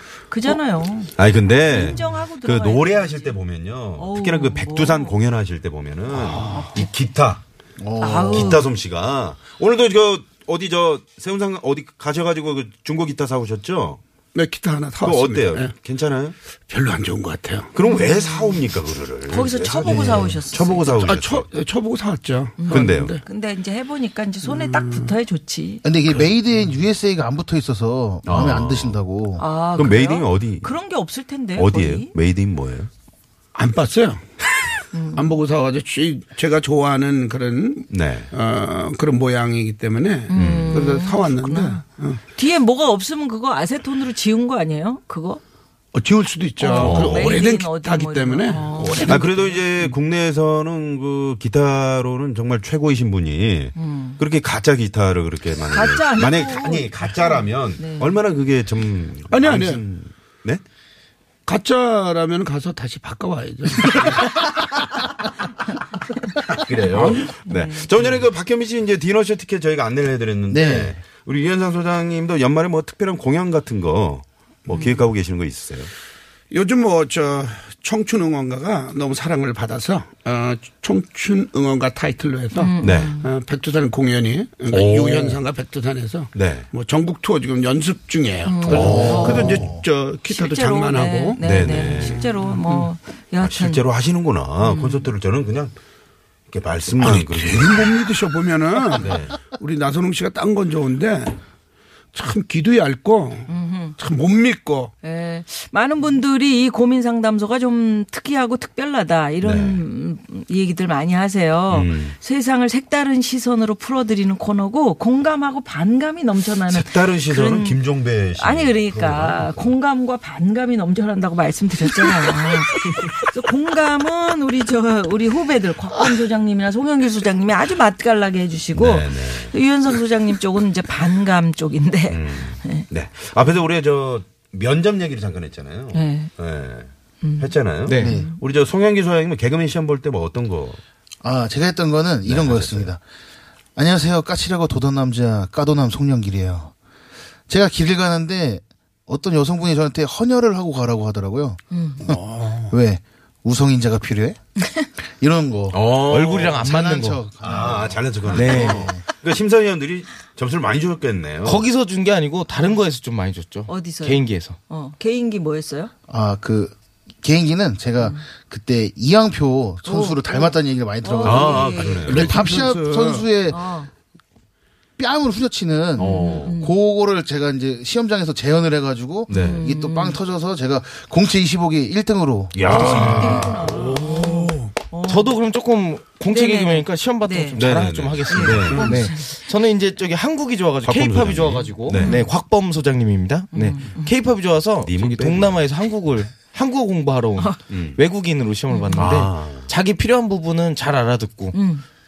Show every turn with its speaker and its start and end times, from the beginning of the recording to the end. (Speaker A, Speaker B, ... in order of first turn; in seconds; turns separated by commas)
Speaker A: 0.3-1.1, Speaker B: 1.2-7.4, Speaker A: 1.7-3.3, Speaker A: 4.0-5.1, Speaker C: 6.1-6.7, Speaker A: 6.5-6.8, Speaker D: 7.8-8.6, Speaker A: 8.0-8.6, Speaker B: 8.3-14.0, Speaker C: 14.3-15.7, Speaker B: 15.0-16.4, Speaker C: 16.7-17.7, Speaker B: 17.7-21.5, Speaker A: 17.8-18.6, Speaker A: 19.3-21.0, Speaker D: 19.9-20.3, Speaker C: 21.0-23.2, Speaker A: 22.6-25.8, Speaker B: 22.7-23.1, Speaker C: 24.5-25.1, Speaker D: 25.8-29.4, Speaker B: 28.2-29.0, Speaker A: 29.4-32.1, Speaker B: 29.8-30.7, Speaker B: 31.6-32.9, Speaker C: 33.5-34.3, Speaker A: 34.9-35.4, Speaker C: 35.1-42.2, Speaker B: 37.9-38.3, Speaker A: 40.3-41.8, Speaker B: 40.3-40.9, Speaker A: 42.3-45.4, Speaker C: 45.9-49.9, Speaker A: 46.6-49.2, Speaker B: 46.7-47.4, Speaker B: 49.0-60.6, Speaker A: 53.8-54.2, Speaker A: 55.6-58.2, Speaker C: 59.3-59.8, Speaker C: 61.5-64.4, Speaker B: 66.5-75.9, Speaker C: 66.9-67.3, Speaker A: 67.4-67.9, Speaker D: 70.5-71.0, Speaker A: 74.7-75.0, Speaker C: 76.5-92.9, Speaker A: 82.5-83.3, Speaker B: 82.8-83.1, Speaker B: 84.7-85.4, Speaker B: 86.3-86.7, Speaker A: 88.4-89.6, Speaker B: 88.7-89.8, Speaker D: 88.8-89.8, Speaker A: 90.3-93.8, Speaker B: 91.4-92.3, Speaker B: 93.4-95.7, Speaker A: 94.6-95.1, Speaker B: 96.5-98.0, Speaker C: 97.0-101.4, Speaker B: 98.9-99.4, Speaker C: 102.1-104.9, Speaker A: 103.5-104.0, Speaker A: 105.0-117.8, Speaker B: 109.4-109.8, Speaker B: 111.7-112.2, Speaker B: 116.7-119.7, Speaker A: 118.4-132.8, Speaker B: 128.7-129.5, Speaker B: 132.1-140.8, Speaker A: 135.9-136.3, Speaker A: 137.2-138.4, Speaker E: 137.9-138.2, Speaker D: 138.0-138.3, Speaker D: 141.2-143.0, Speaker B: 142.2-142.9, Speaker D: 143.8-146.7, Speaker D: 147.5-154.4, Speaker A: 151.7-152.0, Speaker C: 152.0-152.8, Speaker D: 155.0-159.0, Speaker B: 155.7-156.7, Speaker E: 156.0-157.2, Speaker B: 157.4-161.6, Speaker E: 158.3-158.9, Speaker E: 161.4-164.6, Speaker A: 163.7-165.9, Speaker D: 166.1-173.7, Speaker A: 168.0-168.2, Speaker A: 169.8-172.1, Speaker B: 171.2-172.4, Speaker C: 172.0-173.2, Speaker A: 173.5-173.9, Speaker D: 175.0-183.7, Speaker A: 176.0-176.7, Speaker B: 176.0-176.6, Speaker B: 179.3-179.6, Speaker A: 179.3-180.2, Speaker B: 182.5-183.6, Speaker A: 182.7-185.4, Speaker C: 182.7-184.7, Speaker E: 185.0-201.6, Speaker A: 186.3-187.6, Speaker B: 187.6-188.9, Speaker A: 188.3-189.4, Speaker C: 188.7-189.0, Speaker B: 190.8-192.2, Speaker A: 191.9-192.3, Speaker A: 193.5-194.1, Speaker B: 194.8-195.6, Speaker B: 197.7-198.0, Speaker A: 198.7-199.1, Speaker B: 198.9-199.7, Speaker A: 201.5-201.8